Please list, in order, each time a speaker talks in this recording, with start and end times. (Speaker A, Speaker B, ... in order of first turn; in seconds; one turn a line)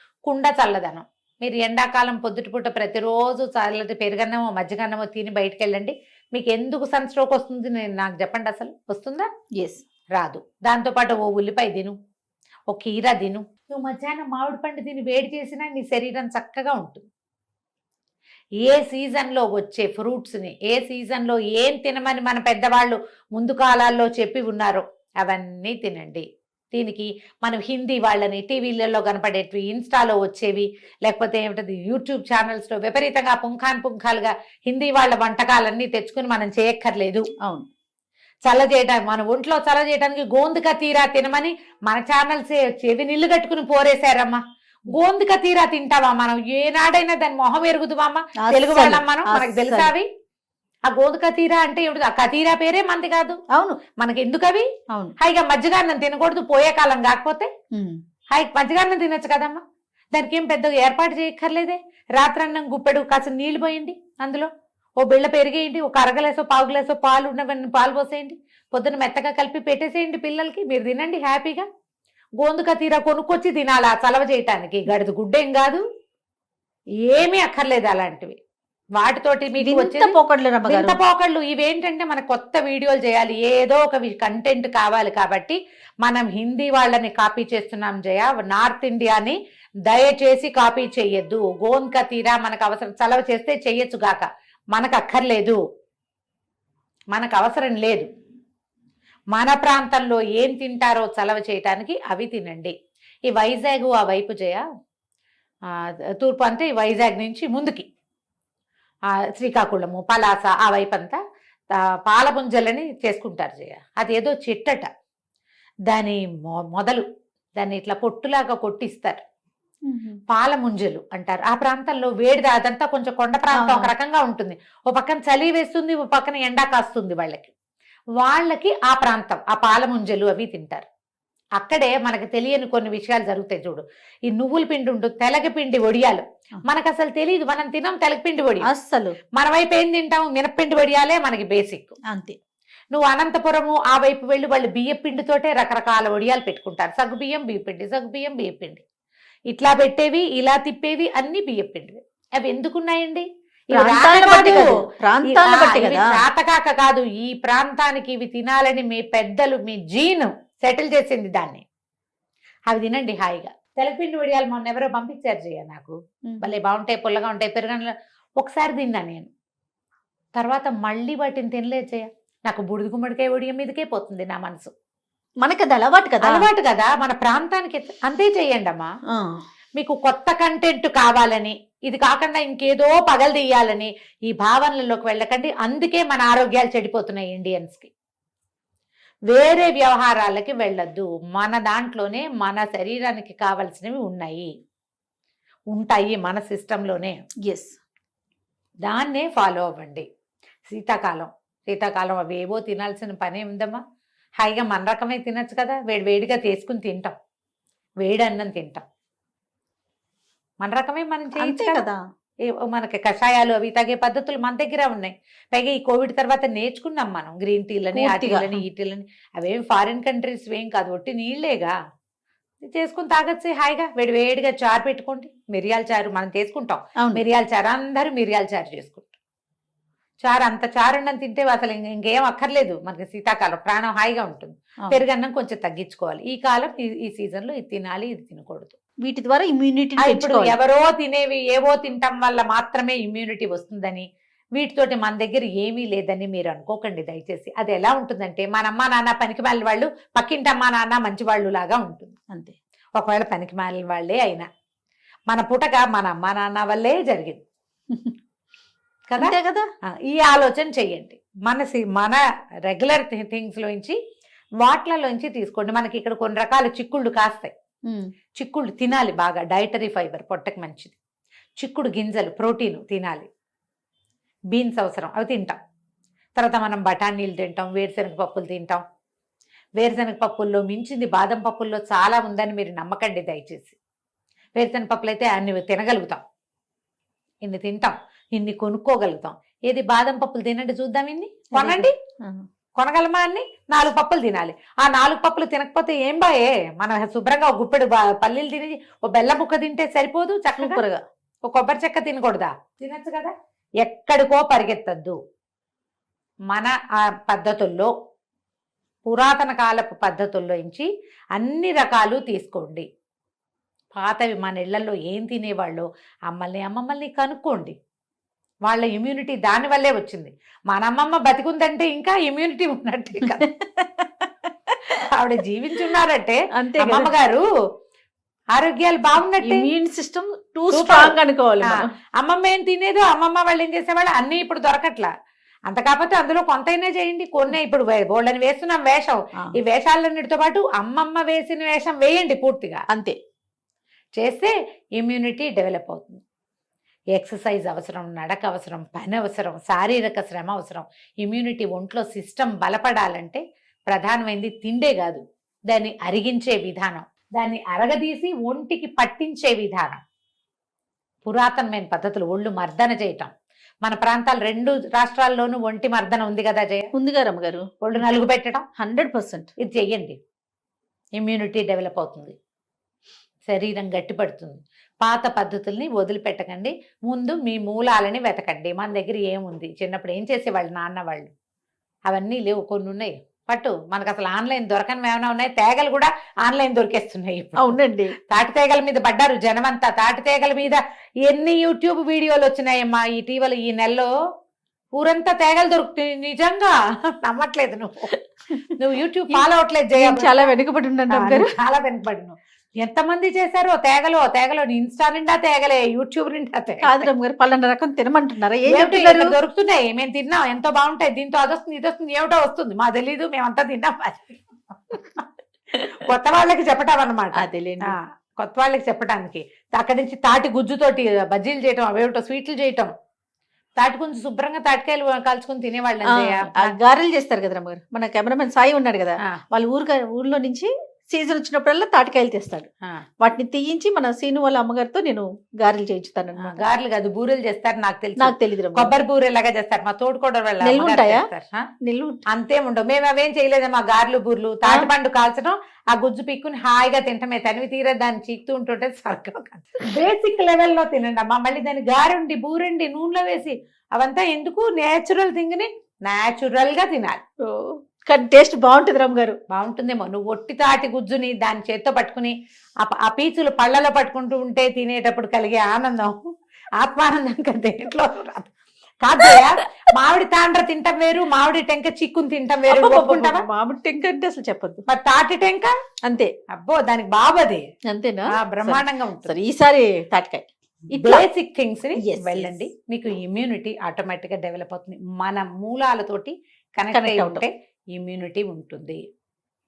Speaker A: 0.2-9.3
Speaker A: 10.1-11.9
Speaker A: 12.7-17.0
Speaker A: 18.6-37.3
Speaker A: 38.4-44.4
Speaker A: 44.9-50.1
Speaker B: 48.4-49.9
Speaker A: 50.9-53.4
Speaker B: 53.5-53.8
Speaker A: 54.0-54.6
Speaker A: 55.2-57.5
Speaker A: 58.3-59.6
Speaker A: 60.1-64.5
Speaker A: 65.0-71.6
Speaker A: 72.4-75.8
Speaker A: 77.0-78.3
Speaker A: 79.0-80.2
Speaker B: 79.6-81.0
Speaker A: 80.7-95.6
Speaker A: 97.1-98.0
Speaker A: 99.3-102.7
Speaker A: 103.3-104.6
Speaker A: 106.2-107.8
Speaker A: 109.4-111.2
Speaker A: 112.0-114.9
Speaker A: 115.9-117.0
Speaker A: 117.6-119.2
Speaker B: 119.9-120.2
Speaker A: 120.3-127.5
Speaker B: 123.5-123.9
Speaker A: 128.2-130.8
Speaker A: 131.6-138.7
Speaker B: 138.7-139.2
Speaker A: 139.3-141.9
Speaker B: 142.1-142.3
Speaker A: 142.9-148.8
Speaker A: 149.5-154.7
Speaker B: 153.7-156.2
Speaker A: 155.3-161.6
Speaker A: 162.7-169.3
Speaker B: 166.3-166.5
Speaker A: 170.4-174.7
Speaker B: 175.4-176.5
Speaker A: 176.2-178.9
Speaker A: 179.8-187.9
Speaker A: 189.3-194.5
Speaker A: 195.7-197.2
Speaker B: 197.4-197.8
Speaker A: 198.8-200.0
Speaker A: 200.7-203.8
Speaker A: 204.4-207.1
Speaker A: 208.0-208.8
Speaker A: 210.6-211.8
Speaker B: 211.3-212.0
Speaker A: 212.6-221.7
Speaker B: 217.9-218.6
Speaker A: 222.6-229.2
Speaker A: 230.2-238.8
Speaker B: 239.0-240.6
Speaker A: 240.0-244.0
Speaker A: 244.6-252.2
Speaker A: 253.0-254.4
Speaker A: 255.3-257.4
Speaker A: 259.1-259.4
Speaker B: 259.2-259.7
Speaker A: 260.1-263.9
Speaker A: 264.6-267.5
Speaker A: 268.4-271.0
Speaker A: 271.6-273.3
Speaker A: 274.5-275.6
Speaker A: 276.4-278.8
Speaker A: 279.8-283.7
Speaker A: 284.6-286.2
Speaker A: 287.4-291.9
Speaker B: 291.5-292.4
Speaker A: 292.8-300.8
Speaker B: 300.6-301.0
Speaker A: 301.5-305.2
Speaker A: 306.5-307.9
Speaker A: 309.1-312.9
Speaker A: 313.9-317.7
Speaker A: 318.7-323.4
Speaker B: 323.2-324.2
Speaker A: 325.1-327.4
Speaker B: 326.6-327.1
Speaker A: 328.5-329.7
Speaker B: 329.4-331.9
Speaker A: 330.7-335.1
Speaker A: 335.7-342.8
Speaker A: 344.2-346.2
Speaker A: 347.1-360.0
Speaker A: 361.2-363.3
Speaker A: 363.8-366.9
Speaker B: 366.9-367.6
Speaker A: 367.8-368.6
Speaker B: 368.8-369.5
Speaker A: 369.6-370.2
Speaker A: 371.2-372.3
Speaker A: 373.5-381.3
Speaker A: 382.1-387.8
Speaker B: 387.6-388.2
Speaker A: 388.3-394.1
Speaker A: 395.0-398.1
Speaker A: 398.8-400.5
Speaker B: 400.0-401.5
Speaker A: 401.1-407.1
Speaker B: 406.8-409.4
Speaker A: 408.6-415.2
Speaker A: 416.0-422.9
Speaker B: 417.3-417.9
Speaker A: 423.8-426.8
Speaker B: 426.0-432.7
Speaker B: 433.2-436.6
Speaker A: 436.4-441.6
Speaker B: 438.2-438.9
Speaker B: 440.6-441.3
Speaker B: 441.8-442.2
Speaker A: 442.3-457.2
Speaker B: 457.4-459.4
Speaker A: 459.5-466.2
Speaker A: 466.8-468.5
Speaker A: 469.0-473.4
Speaker B: 472.7-474.8
Speaker A: 474.9-475.7
Speaker B: 476.1-476.3
Speaker A: 476.5-477.7
Speaker B: 477.9-481.2
Speaker A: 478.3-479.3
Speaker A: 480.9-489.0
Speaker B: 481.9-482.6
Speaker B: 486.9-487.4